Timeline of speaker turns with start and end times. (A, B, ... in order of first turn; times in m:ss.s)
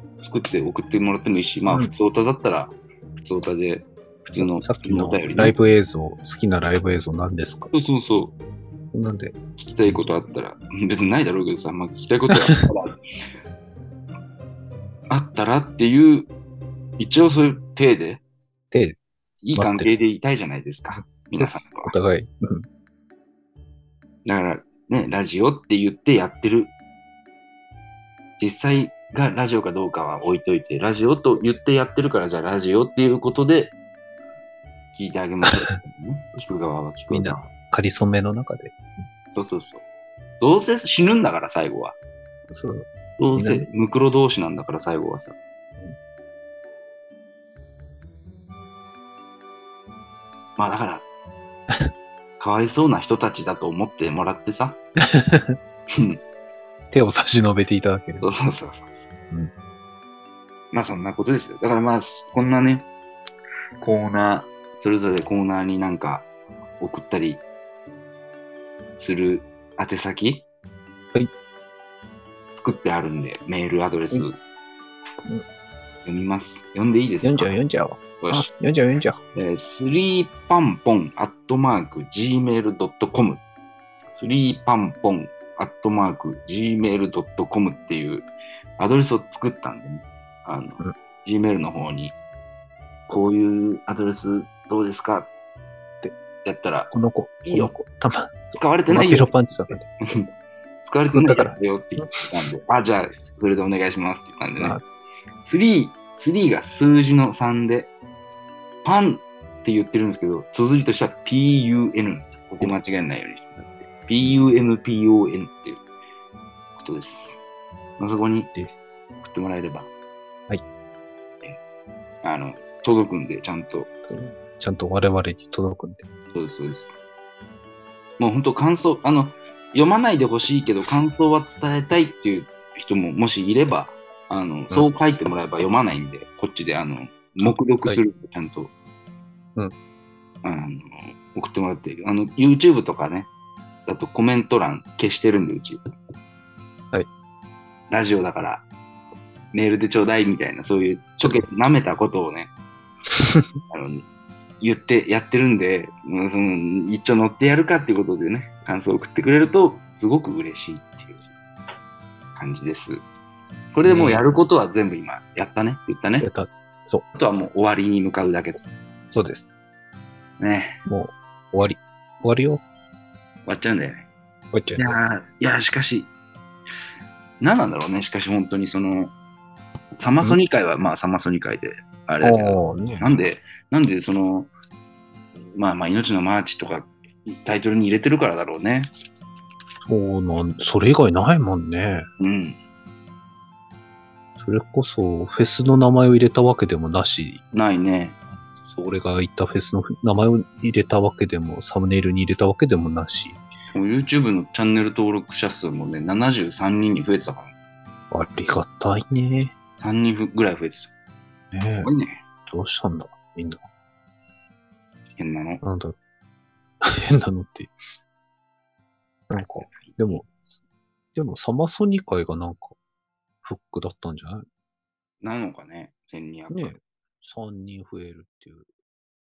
0:00.2-0:05.6 A
0:04.4-0:07.7 B
0:07.7-0:08.3 A
0:08.9-0:10.1 B
0:09.6-0:13.0 A
0:12.3-0:12.6 B
0:15.1-0:16.3 A
0:17.0-0:18.2 A
0:18.7-0:19.0 B
0:19.4-0:21.9 A
0:19.5-0:20.0 B
0:21.0-0:22.7 B
0:24.2-0:26.7 A
0:28.4-0:33.8 A
0:34.9-0:37.4 A
0:37.1-0:38.8 B
0:39.4-0:39.8 A
0:40.4-0:42.0 A
0:42.5-0:43.7 B
0:43.2-0:45.4 A
0:50.6-0:51.1 A
0:52.4-0:54.8 A
0:55.0-0:55.6 B
0:55.9-0:56.2 A
0:56.9-0:58.3 B
0:58.2-0:59.0 A
1:00.7-1:02.9 A
1:03.8-1:06.3 A
1:06.8-1:07.4 A
1:09.0-1:10.4 A
1:12.6-1:14.4 A
1:16.0-1:17.5 A
1:17.2-1:19.2 B
1:18.2-1:18.5 A
1:19.3-1:23.4 A
1:24.1-1:32.2 A
1:33.1-1:35.3 A
1:36.4-1:36.9 A
1:36.9-1:39.9 B
1:37.4-1:37.7 A
1:38.6-1:40.3 A
1:40.8-1:44.8 A
1:41.1-1:42.2 B
1:44.6-1:44.8 B
1:45.4-1:47.9 A
1:48.8-1:55.8 A
1:56.8-1:57.4 A
1:58.0-1:58.5 A
1:59.2-1:59.9 A
2:02.2-2:03.9 A
2:04.0-2:06.1 B
2:06.3-2:06.9 A
2:08.2-2:18.7 A
2:17.4-2:18.0 B
2:20.4-2:23.3 A
2:23.9-2:25.9 A
2:27.9-2:28.7 A
2:29.5-2:32.5 A
2:33.1-2:33.5 B
2:33.7-2:34.0 A
2:34.6-2:41.3 A
2:42.4-2:43.0 A
2:43.7-2:46.3 A
2:43.8-2:44.2 B
2:46.2-2:47.1 B
2:47.2-2:48.6 A
2:49.1-2:49.5 B
2:50.4-2:50.8 A
2:50.9-2:52.6 B
2:53.5-2:54.1 A
2:54.5-2:55.0 B
2:54.8-2:56.1 A
2:57.4-2:59.1 A
3:00.0-3:04.5 A
3:02.2-3:03.1 B
3:05.6-3:08.9 A
3:09.9-3:12.1 B
3:12.2-3:12.6 A
3:14.4-3:17.4 B
3:17.5-3:18.2 A
3:18.7-3:23.4 B
3:23.7-3:27.5 A
3:28.1-3:29.5 B
3:29.8-3:30.9 A
3:31.5-3:31.9 B
3:31.8-3:32.2 A
3:32.5-3:33.6 B
3:35.2-3:35.6 A
3:35.6-3:36.0 B
3:36.8-3:37.7 B
3:39.3-3:40.5 B
3:39.4-3:40.0 A
3:41.2-3:42.8 B
3:43.4-3:44.5 B
3:45.2-3:46.8 A
3:46.5-3:48.7 B